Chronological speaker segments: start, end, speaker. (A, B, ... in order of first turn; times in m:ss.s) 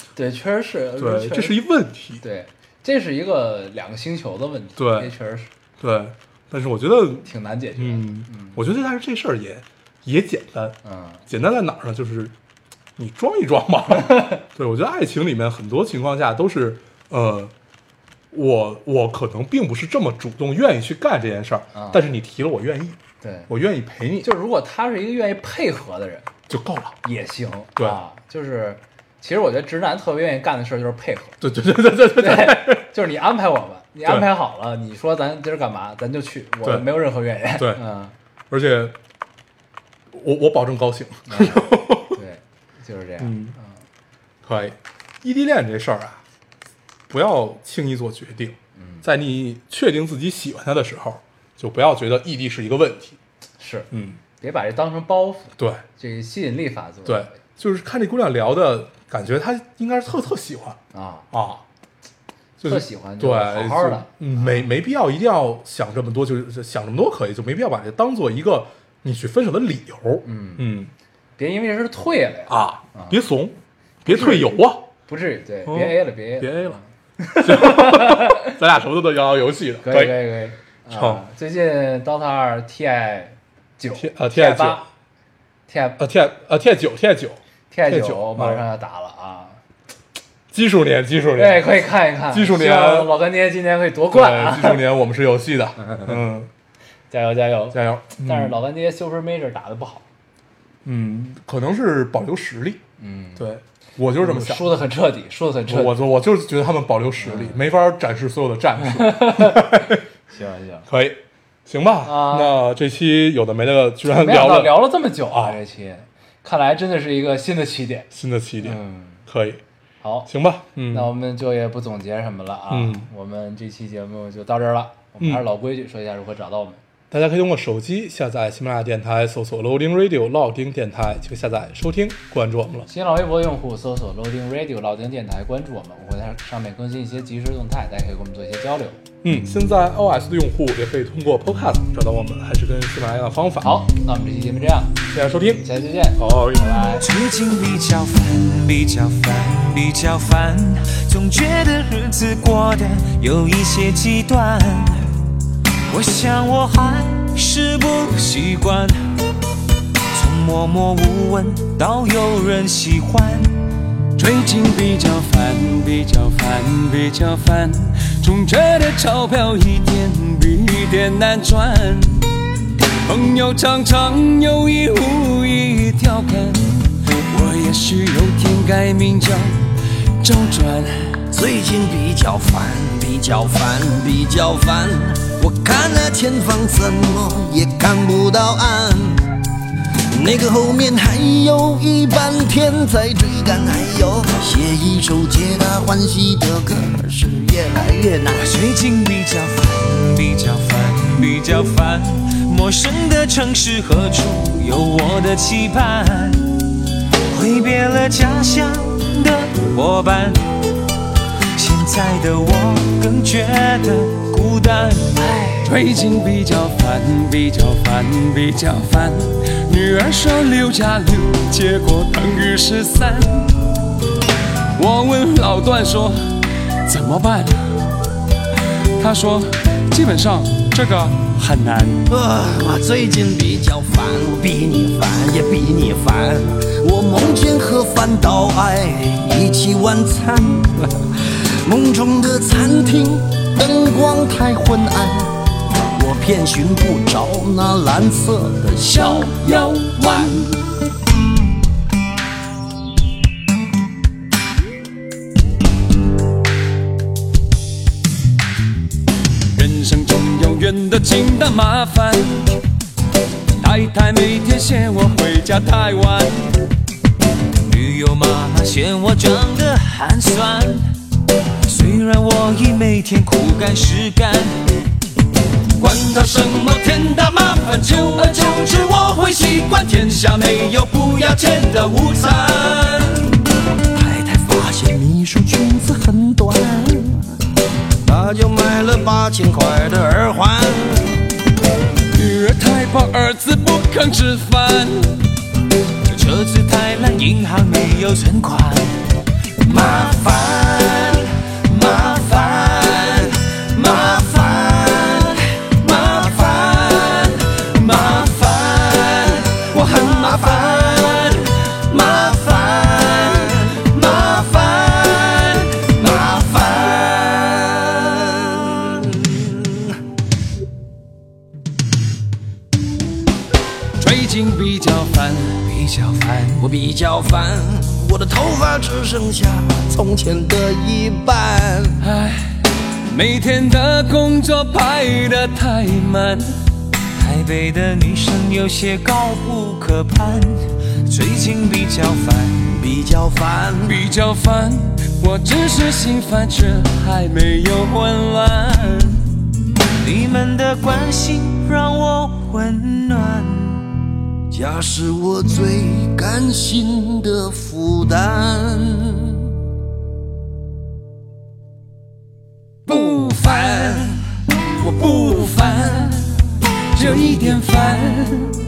0:00.2-0:01.6 A
0:01.0-0:02.2 B
0:02.2-0:05.5 A
0:04.8-0:05.1 B
0:05.8-0:12.4 B
0:07.2-0:08.6 A
0:10.8-0:11.3 A
0:13.0-0:17.5 B
0:14.1-0:14.4 A
0:18.3-0:23.0 B
0:21.7-0:22.0 A
0:23.2-0:23.5 A
0:23.5-0:24.3 B
0:24.2-0:26.3 A
0:26.5-0:27.0 B
0:27.0-0:31.4 A
0:31.4-0:32.9 B
0:32.2-0:38.2 A
0:37.6-0:37.8 B
0:38.5-0:39.0 B
0:40.1-0:42.2 B
0:41.3-0:43.8 A
0:43.2-0:43.6 B
0:44.4-0:46.2 B
0:47.1-0:53.2 B
0:48.8-0:49.1 A
0:53.6-0:57.4 A
0:53.9-0:54.2 B
0:55.6-0:55.8 B
0:57.0-1:00.8 B
1:00.9-1:01.3 A
1:01.3-1:01.6 B
1:02.6-1:10.9 B
1:02.6-1:04.7 A
1:10.2-1:10.7 A
1:11.4-1:13.2 A
1:12.5-1:14.9 B
1:14.1-1:14.5 A
1:15.1-1:18.6 A
1:15.6-1:16.8 B
1:17.4-1:20.2 B
1:19.8-1:24.9 A
1:20.9-1:21.2 B
1:24.0-1:24.8 B
1:25.7-1:26.0 A
1:26.0-1:28.6 B
1:27.7-1:29.6 A
1:30.5-1:33.2 B
1:31.4-1:34.8 A
1:34.1-1:36.5 B
1:35.8-1:36.2 A
1:37.1-1:40.1 A
1:37.7-1:38.6 B
1:40.8-1:42.8 B
1:43.0-1:43.5 A
1:43.4-1:44.7 B
1:44.2-1:46.0 A
1:45.7-1:50.0 B
1:47.2-1:47.6 A
1:48.8-1:50.9 A
1:50.9-1:55.6 B
1:52.0-1:52.6 A
1:54.1-1:58.1 A
1:58.1-1:59.6 B
1:58.6-1:59.3 A
2:00.0-2:00.3 A
2:00.3-2:01.1 B
2:00.9-2:06.8 A
2:02.7-2:03.1 B
2:07.1-2:12.9 B
2:12.9-2:19.0 A
2:19.2-2:23.8 B
2:23.6-2:25.0 A
2:25.1-2:25.6 B
2:25.6-2:27.1 A
2:26.2-2:26.7 B
2:27.0-2:35.2 C
2:35.9-2:39.0 C
2:40.1-2:43.6 C
2:44.2-2:52.4 D
2:53.0-3:01.2 D
3:01.3-3:09.3 E
3:10.1-3:18.5 E
3:18.3-3:26.5 C
3:27.3-3:30.5 C
3:31.6-3:35.5 C
3:35.4-3:43.6 D
3:44.8-3:47.9 D
3:49.0-3:52.1 D
3:52.1-4:01.1 E
4:01.6-4:05.4 E
4:05.9-4:10.4 E
4:08.8-4:10.4 D
4:19.5-4:22.6 D
4:23.6-4:26.6 D
4:27.6-4:30.9 C
4:31.6-4:34.8 C
4:35.8-4:42.6 E
4:36.6-4:37.4 C
4:38.4-4:43.3 C
4:44.0-4:47.4 E
4:48.0-4:51.3 E
4:52.1-4:55.3 D
4:56.1-4:59.0 C
4:59.6-5:20.0 E
5:24.0-5:25.7 D
5:25.7-5:26.7 C
5:26.6-5:32.0 E
5:32.0-5:36.6 D
5:37.2-5:42.8 C
5:42.7-5:44.1 E
5:43.9-5:49.3 D
5:50.0-5:54.0 C
5:54.5-5:59.5 E
6:02.9-6:08.1 E
6:07.0-6:08.6 D